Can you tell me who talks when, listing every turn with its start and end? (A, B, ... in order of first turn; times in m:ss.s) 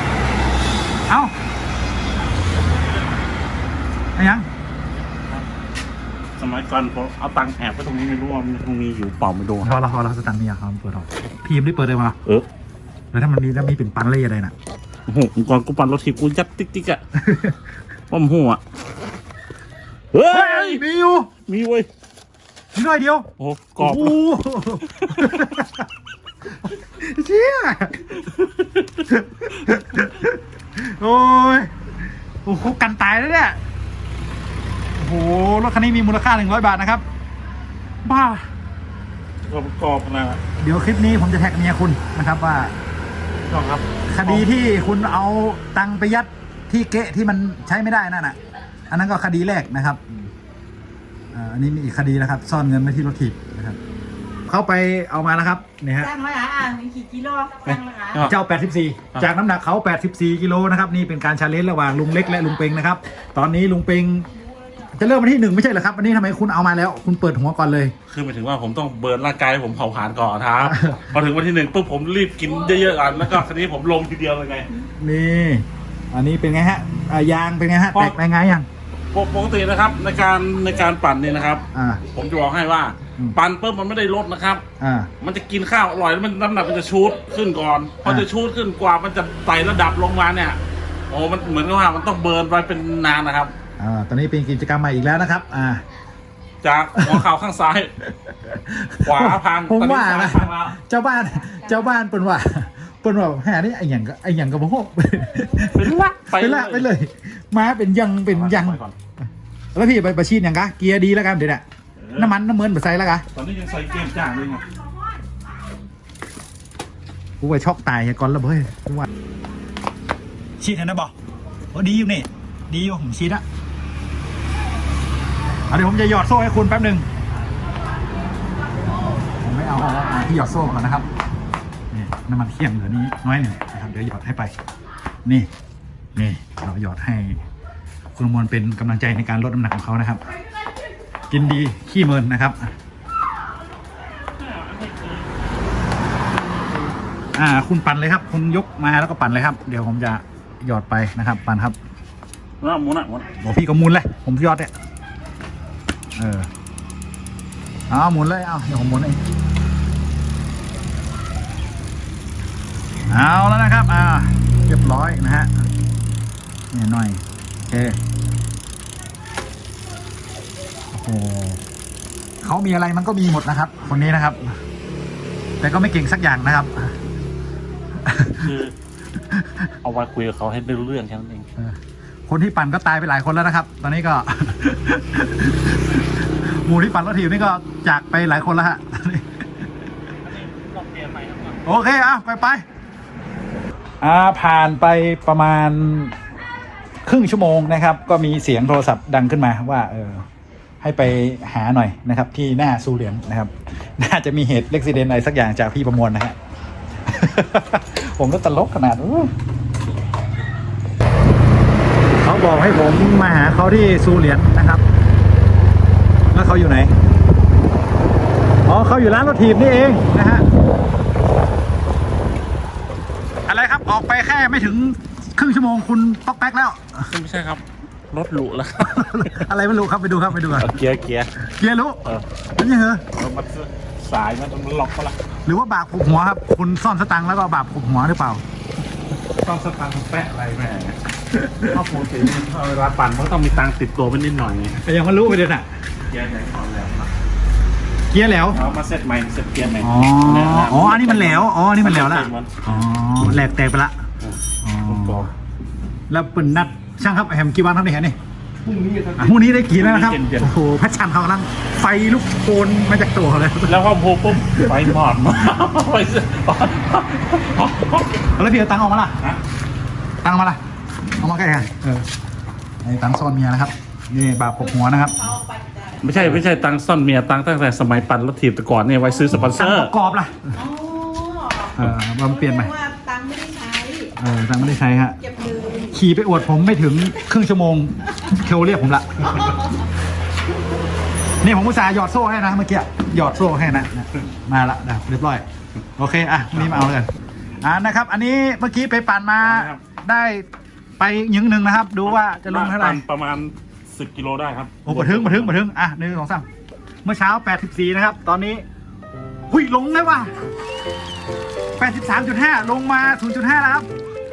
0:01.1-0:01.3 A
0:04.2-0:04.5 A
0:06.4-0:09.7 B
0:09.6-0:12.2 A
0:13.1-0:14.5 A
0:15.1-0:17.0 B
0:17.2-0:17.6 A
0:18.1-0:18.6 B
0:20.1-0:20.8 B
0:20.2-0:21.3 A
0:21.5-0:21.9 B
0:22.7-0:23.3 A
0:23.4-0:24.2 B
0:23.8-0:25.9 A
0:25.0-0:25.5 B
0:26.6-0:28.2 A
0:28.3-0:29.0 B
0:29.1-0:31.7 A
0:32.4-0:33.6 A
0:35.0-0:37.0 A
0:38.0-0:38.5 B
0:39.5-0:40.4 B
0:40.6-0:42.7 A
0:43.5-0:44.6 B
0:44.1-0:48.4 A
0:48.9-0:50.2 A
0:51.3-0:53.8 A
0:54.5-0:56.2 A
0:56.0-0:58.2 C
0:58.0-0:58.3 B
0:58.2-1:04.3 A
1:05.0-1:07.9 A
1:08.1-1:14.7 B
1:10.7-1:11.0 A
1:15.0-1:18.7 A
1:17.9-1:18.2 B
1:19.1-1:24.6 B
1:21.7-1:22.0 A
1:24.8-1:25.1 A
1:25.2-1:33.5 B
1:33.8-1:35.8 A
1:36.6-1:37.9 B
1:38.2-1:48.8 A
1:39.0-1:40.8 B
1:45.7-1:46.9 B
1:48.3-1:49.0 B
1:49.8-1:51.6 A
1:52.0-1:52.3 B
1:52.2-1:53.3 A
1:53.3-1:54.7 B
1:57.4-1:59.1 A
2:00.6-2:01.1 A
2:01.7-2:03.4 A
2:05.7-2:07.1 A
2:09.4-2:11.1 A
2:11.9-2:14.5 A
2:16.2-2:17.4 A
2:18.2-2:20.2 A
2:21.3-2:22.7 A
2:24.3-2:25.4 B
2:26.2-2:27.0 B
2:27.4-2:31.8 A
2:32.6-2:33.3 B
2:33.4-2:34.7 A
2:36.2-2:36.5 A
2:37.9-2:39.2 A
2:43.1-2:45.5 A
2:46.7-2:48.0 A
2:50.9-2:51.6 A
2:52.4-2:54.6 A
2:55.6-2:56.9 A
2:58.0-2:58.5 A
2:58.4-2:58.8 B
2:59.3-2:59.7 A
2:59.8-3:01.5 B
3:01.6-3:09.4 A
3:10.2-3:11.7 B
3:11.6-3:12.6 A
3:14.0-3:16.1 A
3:17.1-3:20.2 A
3:20.8-3:26.4 A
3:27.1-3:29.3 A
3:32.2-3:34.8 A
3:36.3-3:36.9 A
3:38.6-3:40.5 A
3:43.5-3:47.1 A
3:47.1-3:49.4 B
3:48.8-3:50.7 A
3:50.5-3:51.3 B
3:51.4-3:52.0 A
3:52.6-3:53.0 A
3:53.1-3:55.2 B
3:55.4-3:58.4 A
3:59.3-4:01.0 B
4:01.4-4:01.7 A
4:01.7-4:04.8 B
4:04.8-4:05.6 A
4:06.0-4:07.1 B
4:08.1-4:08.6 A
4:08.5-4:12.8 B
4:09.8-4:13.9 A
4:14.2-4:15.3 B
4:14.6-4:15.3 A
4:16.1-4:18.2 A
4:18.7-4:20.6 B
4:19.2-4:23.8 A
4:23.7-4:28.3 B
4:24.4-4:24.9 A
4:28.4-4:29.2 A
4:30.2-4:30.6 A
4:31.2-4:32.1 A
4:32.8-4:35.4 A
4:35.4-4:36.0 C
4:36.0-4:39.9 B
4:39.4-4:40.6 A
4:40.6-4:44.2 C
4:41.8-4:42.8 A
4:44.2-4:45.2 A
4:45.2-4:45.9 C
4:45.9-4:49.6 A
4:51.4-4:55.4 A
4:56.0-4:57.1 A
4:57.6-5:00.5 A
4:59.4-4:59.8 B
5:01.0-5:03.0 A
5:02.0-5:05.6 B
5:04.8-5:06.5 A
5:07.0-5:08.6 A
5:09.5-5:10.3 A
5:11.8-5:13.9 A